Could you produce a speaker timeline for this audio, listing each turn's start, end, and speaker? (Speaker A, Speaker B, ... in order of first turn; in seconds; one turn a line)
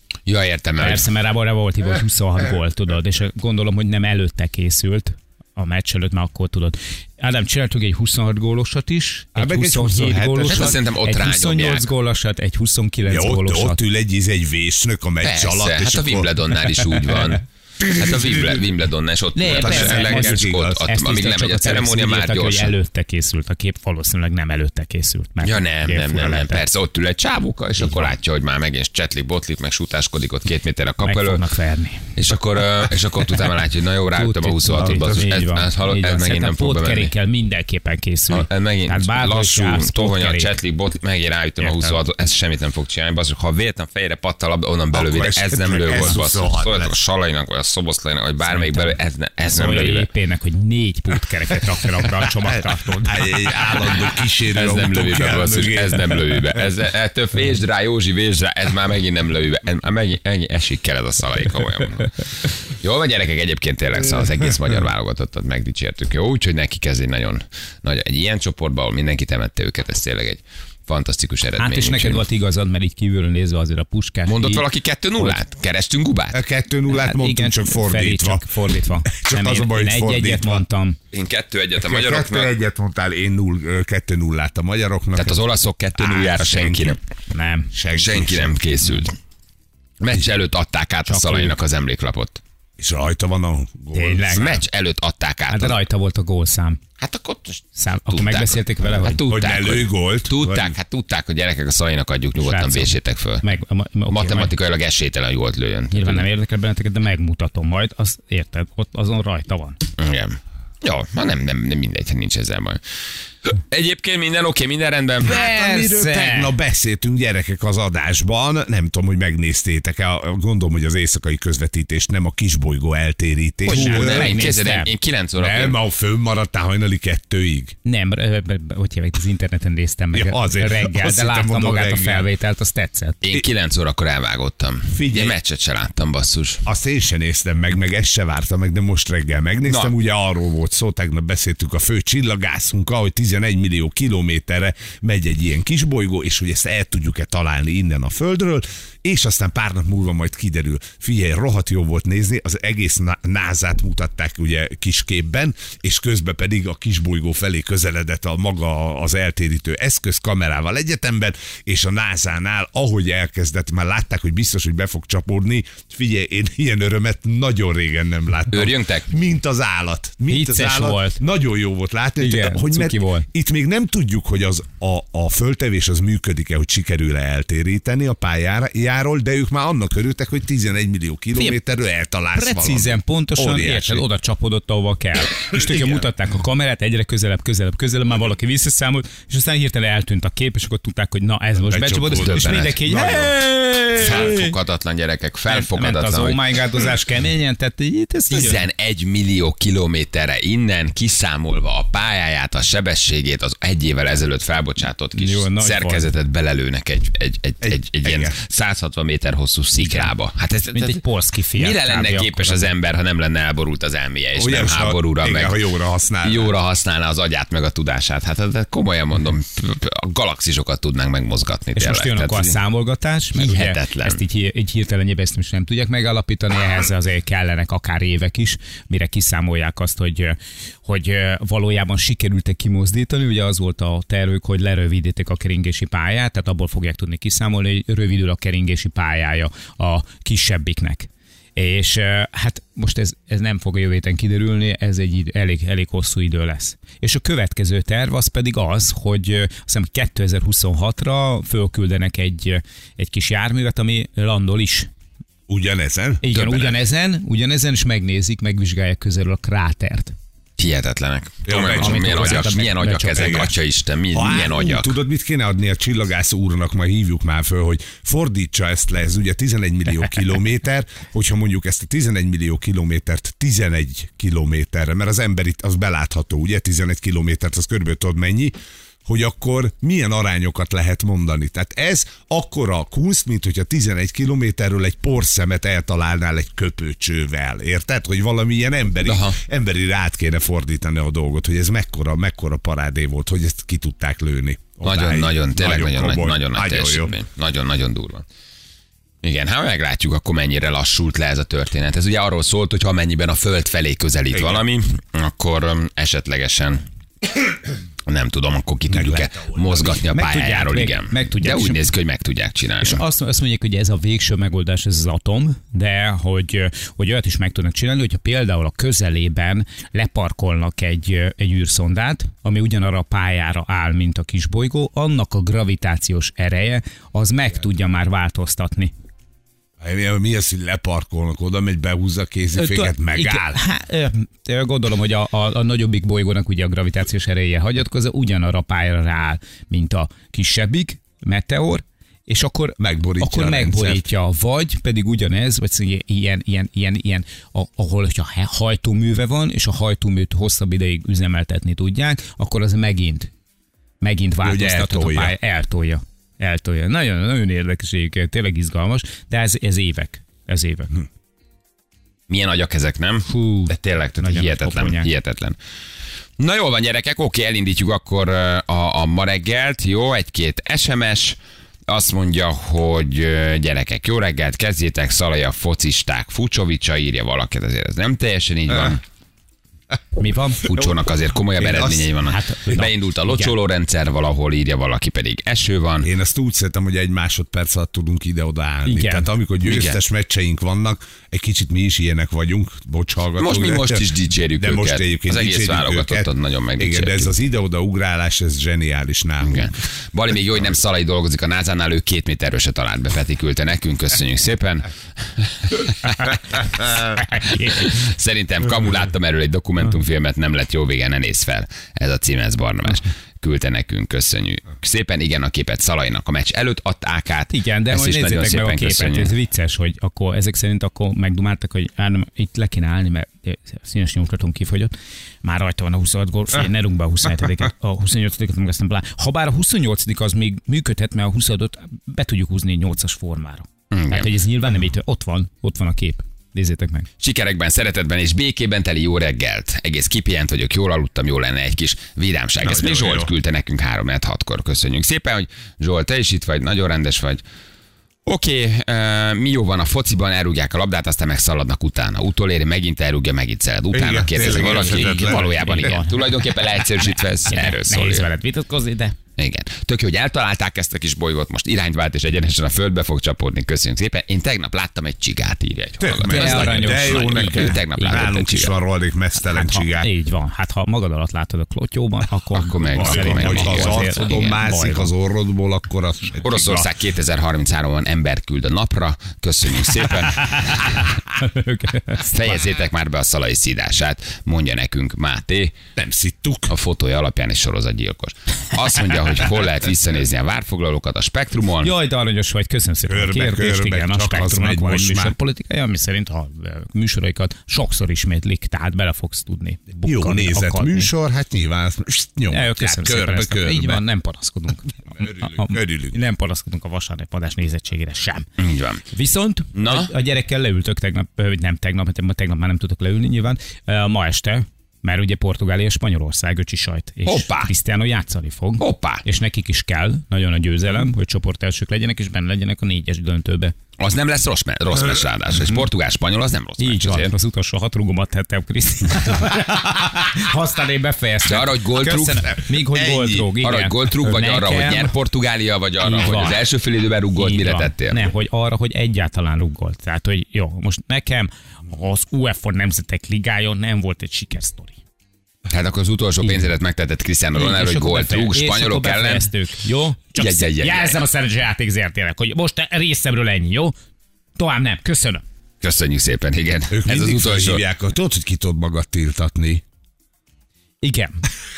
Speaker A: 0.2-1.1
Speaker B: 0.8-13.8
Speaker C: 9.3-10.8
Speaker A: 10.4-11.8
Speaker C: 13.1-16.4
Speaker A: 15.2-22.7
Speaker C: 17.8-18.6
Speaker B: 19.3-26.6
Speaker C: 19.5-20.8
Speaker A: 25.4-31.4
Speaker B: 27.8-28.1
Speaker B: 31.0-32.1
Speaker A: 32.1-37.1
Speaker B: 34.1-40.5
Speaker C: 34.7-35.3
Speaker A: 38.3-50.1
Speaker B: 41.6-42.0
Speaker C: 44.9-47.0
Speaker B: 48.4-49.0
Speaker B: 49.5-53.2
Speaker C: 52.5-56.6
Speaker A: 53.7-72.2
Speaker B: 71.6-74.6
Speaker A: 74.3-76.4
Speaker C: 76.3-78.5
Speaker B: 76.9-81.0
Speaker C: 79.0-80.6
Speaker A: 81.1-82.5
Speaker C: 81.8-85.4
Speaker A: 85.1-87.0
Speaker C: 85.9-87.0
Speaker B: 87.3-87.7
Speaker C: 87.7-88.6
Speaker A: 87.9-89.1
Speaker A: 90.0-92.4
Speaker B: 91.0-91.5
Speaker C: 92.8-94.6
Speaker B: 93.9-94.6
Speaker A: 94.3-95.8
Speaker B: 95.5-96.8
Speaker A: 97.0-103.4
Speaker B: 97.8-99.2
Speaker C: 99.3-100.7
Speaker B: 102.4-104.5
Speaker A: 104.1-106.3
Speaker B: 105.9-109.8
Speaker A: 110.0-112.8
Speaker A: 113.5-115.4
Speaker C: 115.2-124.4
Speaker B: 115.2-116.5
Speaker B: 123.6-124.9
Speaker A: 123.7-125.8
Speaker C: 125.4-127.8
Speaker B: 127.8-133.2
Speaker C: 130.1-132.3
Speaker A: 133.2-136.6
Speaker C: 134.9-135.3
Speaker C: 136.6-184.0
Speaker A: 139.7-139.9
Speaker A: 168.5-169.1
Speaker B: 170.3-171.2
Speaker B: 172.2-173.2
Speaker B: 182.3-194.5
Speaker C: 185.5-185.9
Speaker C: 191.7-193.4
Speaker A: 192.2-192.6
Speaker A: 194.0-196.4
Speaker B: 195.5-198.6
Speaker A: 198.3-211.0
Speaker B: 205.1-206.1
Speaker C: 207.6-208.3
Speaker B: 209.8-210.1
Speaker B: 210.7-212.7
Speaker A: 211.5-215.6
Speaker C: 214.3-216.5
Speaker A: 216.2-222.6
Speaker B: 221.7-254.9
Speaker A: 223.3-224.2
Speaker C: 255.5-256.4
Speaker B: 256.2-260.1
Speaker A: 256.4-256.7
Speaker A: 260.6-264.9
Speaker C: 261.4-263.5
Speaker B: 261.5-263.5
Speaker C: 264.1-297.1
Speaker A: 289.0-289.4
Speaker A: 294.8-298.2
Speaker A: 299.2-306.8
Speaker C: 304.3-304.6
Speaker A: 308.1-313.0
Speaker C: 308.9-310.0
Speaker B: 310.1-311.9
Speaker B: 312.8-328.9
Speaker C: 329.8-333.6
Speaker B: 332.6-353.3
Speaker C: 342.8-344.1
Speaker B: 354.0-361.0
Speaker C: 354.4-355.3
Speaker A: 362.3-365.6
Speaker B: 363.3-365.1
Speaker A: 366.4-371.4
Speaker A: 371.9-379.0
Speaker B: 380.2-380.7
Speaker A: 380.6-386.1
Speaker C: 381.6-382.1
Speaker B: 382.2-383.5
Speaker C: 386.0-394.1
Speaker B: 388.9-389.3
Speaker A: 389.6-390.0
Speaker A: 393.4-397.3
Speaker C: 394.6-399.8
Speaker A: 399.4-419.3
Speaker B: 407.2-407.9
Speaker B: 417.5-437.1
Speaker A: 433.9-434.3
Speaker A: 437.2-447.4
Speaker C: 442.6-443.3
Speaker A: 448.2-458.3
Speaker C: 453.9-455.9
Speaker B: 454.4-456.2
Speaker B: 457.4-459.2
Speaker A: 459.4-468.8
Speaker C: 466.0-470.1
Speaker B: 466.2-468.3
Speaker B: 469.4-475.1
Speaker A: 472.5-474.6
Speaker C: 472.9-476.9
Speaker A: 476.4-481.2
Speaker B: 481.3-482.3
Speaker A: 482.2-485.8
Speaker C: 485.9-486.7
Speaker A: 486.7-491.9
Speaker B: 491.8-501.1
Speaker C: 493.1-495.4
Speaker C: 500.0-504.0
Speaker B: 502.5-508.5
Speaker C: 505.1-506.2
Speaker A: 508.6-509.0
Speaker B: 509.1-523.7
Speaker A: 509.7-510.1
Speaker A: 517.2-517.7
Speaker A: 518.8-519.2
Speaker A: 524.0-527.3
Speaker B: 526.8-535.1
Speaker A: 531.4-532.5
Speaker C: 532.4-533.5
Speaker A: 533.6-538.3
Speaker B: 536.0-536.6
Speaker B: 537.3-545.0
Speaker A: 545.7-549.5
Speaker B: 546.4-546.7
Speaker B: 547.5-553.9
Speaker A: 550.4-551.2
Speaker B: 554.5-555.4
Speaker A: 555.8-557.8
Speaker C: 556.9-559.8
Speaker B: 561.0-561.4